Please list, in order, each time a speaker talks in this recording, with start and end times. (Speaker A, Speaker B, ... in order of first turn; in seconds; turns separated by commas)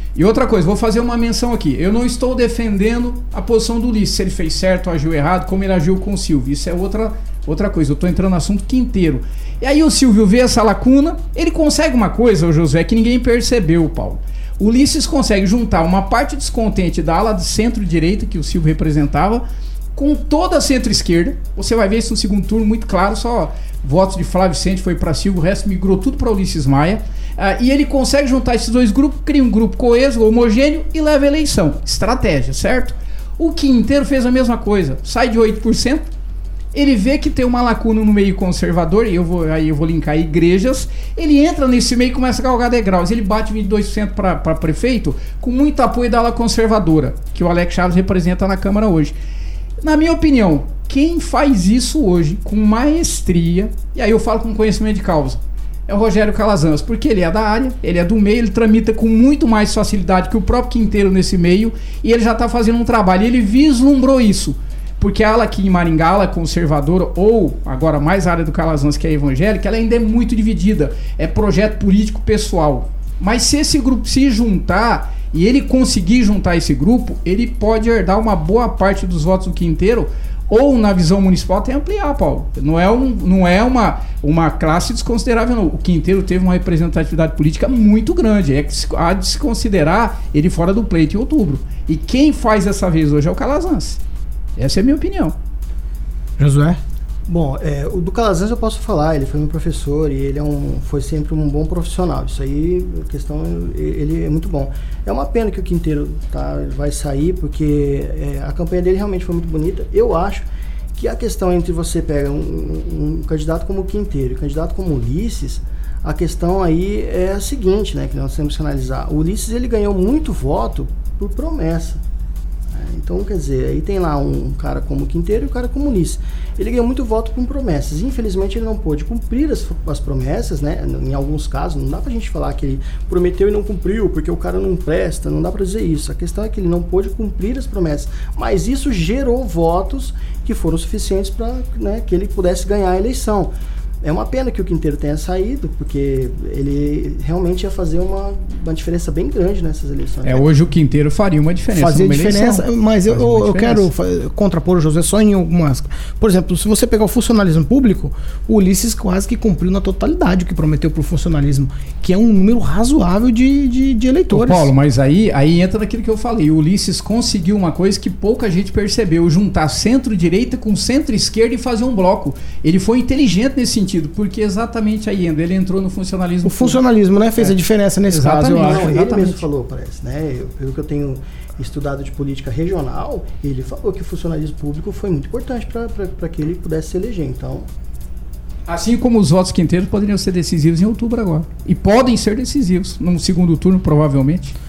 Speaker A: 0.1-19.4, Speaker A: 20.0-36.1, Speaker A: 36.7-49.1, Speaker A: 49.8-94.0, Speaker A: 94.6-95.3, Speaker B: 96.4-96.8, Speaker C: 97.3-122.0, Speaker C: 122.7-150.5, Speaker A: 150.2-153.9, Speaker B: 151.7-164.7, Speaker A: 164.3-176.8, Speaker B: 176.4-179.1, Speaker A: 178.1-179.4, Speaker C: 178.6-187.7, Speaker A: 188.7-194.5